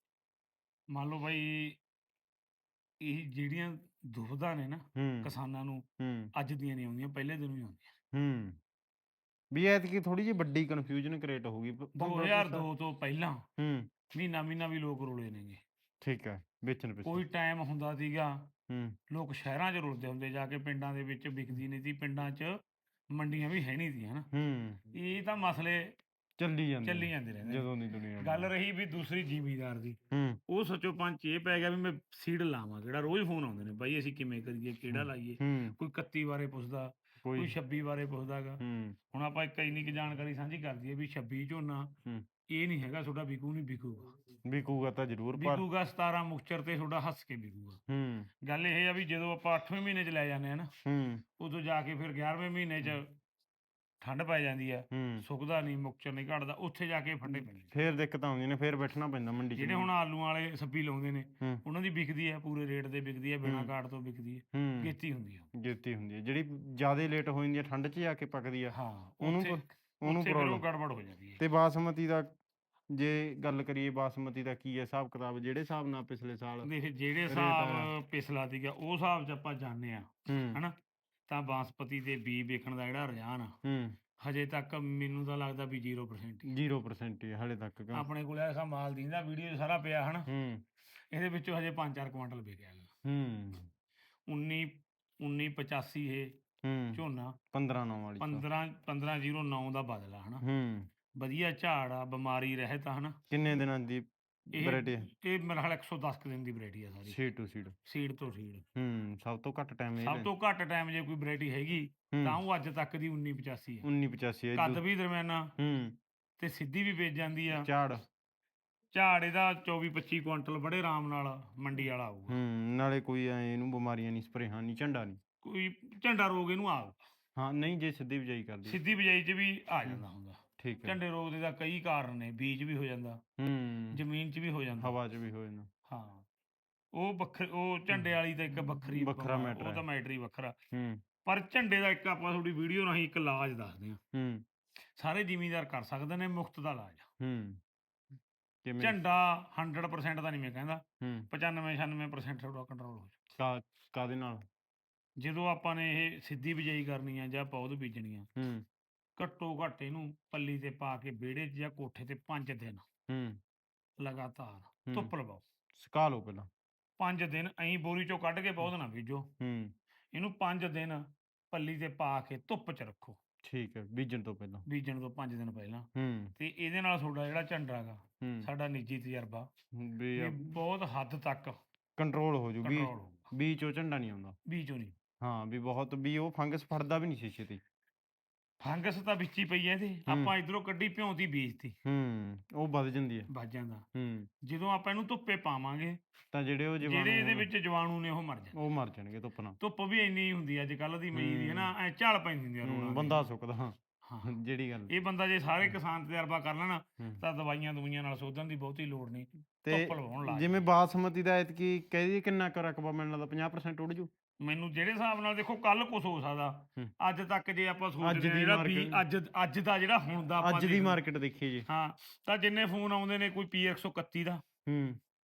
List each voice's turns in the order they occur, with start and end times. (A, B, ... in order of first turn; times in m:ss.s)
0:00.9-0:01.8 A
0:03.0-0:05.8 A
0:05.0-0:05.3 B
0:06.0-0:06.3 B
0:06.4-0:07.9 A
0:08.1-0:08.6 B
0:09.5-0:12.7 B
0:12.0-0:13.4 A
0:13.6-0:13.9 B
0:14.1-0:15.6 A
0:16.0-0:17.2 B
0:17.0-0:18.5 A
0:18.7-0:19.0 B
0:19.1-0:22.6 A
0:23.1-0:24.3 A
0:24.3-0:24.8 B
0:24.9-0:25.9 A
0:26.4-0:28.5 B
0:26.8-0:30.0 A
0:30.1-0:30.4 B
0:30.5-0:42.0 A
0:34.9-0:35.8 B
0:37.2-0:37.6 B
0:38.6-0:39.0 B
0:42.5-0:44.1 A
0:44.5-0:45.6 B
0:45.4-0:47.8 A
0:47.9-0:48.3 B
0:48.4-0:50.7 A
0:50.8-0:51.2 B
0:51.4-0:53.1 A
0:54.0-0:57.7 A
0:54.9-0:55.2 B
0:57.3-0:59.9 B
0:59.6-1:05.5 A
1:03.4-1:03.7 B
1:04.5-1:04.9 B
1:05.6-1:10.6 B
1:08.7-1:11.4 A
1:11.4-1:12.3 B
1:12.9-1:16.7 B
1:16.6-1:20.8 A
1:17.3-1:17.9 B
1:20.3-1:20.6 B
1:21.3-1:23.6 A
1:23.6-1:24.0 B
1:24.2-1:26.5 A
1:26.4-1:28.1 B
1:27.9-1:30.3 A
1:30.3-1:30.6 B
1:31.1-1:32.9 A
1:33.0-1:33.7 B
1:34.3-1:36.3 A
1:36.6-1:38.4 B
1:37.0-1:37.4 A
1:38.2-1:40.4 A
1:40.4-1:40.9 B
1:41.2-1:43.2 A
1:43.3-1:45.1 B
1:44.5-1:47.2 A
1:47.1-1:47.8 B
1:47.8-1:48.6 A
1:48.8-1:50.3 B
1:50.0-1:53.9 A
1:52.1-1:52.4 B
1:53.8-1:54.8 B
1:54.6-1:55.5 A
1:55.6-1:56.0 B
1:56.4-1:57.7 A
1:57.5-1:58.0 B
1:58.9-2:02.4 A
2:02.3-2:05.2 B
2:05.4-2:07.0 A
2:07.4-2:08.8 B
2:08.6-2:13.2 A
2:10.6-2:11.0 B
2:13.4-2:14.0 B
2:13.9-2:15.0 A
2:14.8-2:15.7 B
2:15.9-2:16.2 A
2:16.9-2:20.6 A
2:18.9-2:19.8 B
2:20.7-2:21.0 B
2:21.2-2:24.0 A
2:24.1-2:24.4 B
2:25.0-2:27.1 A
2:27.2-2:27.6 B
2:28.6-2:29.0 B
2:28.8-2:33.2 A
2:31.0-2:31.3 B
2:33.4-2:34.5 B
2:35.2-2:38.3 A
2:38.4-2:38.6 B
2:39.2-2:42.8 A
2:43.1-2:43.4 B
2:44.0-2:45.4 A
2:45.8-2:46.5 B
2:47.0-2:49.3 A
2:49.4-2:49.7 B
2:50.1-2:53.2 A
2:53.4-2:54.6 B
2:54.7-2:55.9 A
2:56.0-2:56.3 B
2:56.4-2:59.5 A
2:58.2-2:58.5 B
2:59.8-3:00.6 B
3:00.2-3:01.6 A
3:02.0-3:04.4 B
3:02.6-3:03.3 A
3:04.5-3:05.0 A
3:05.2-3:07.6 B
3:08.6-3:11.8 A
3:11.9-3:13.3 B
3:13.3-3:13.8 A
3:14.0-3:14.3 B
3:14.4-3:16.0 A
3:16.3-3:17.5 B
3:16.8-3:18.6 A
3:18.5-3:19.6 B
3:19.6-3:23.2 A
3:21.1-3:21.7 B
3:22.6-3:24.9 B
3:24.0-3:24.3 A
3:24.9-3:30.7 A
3:29.6-3:34.1 B
3:34.4-3:41.0 A
3:38.0-3:39.0 B
3:40.4-3:41.7 B
3:41.7-3:44.4 A
3:44.7-3:45.0 B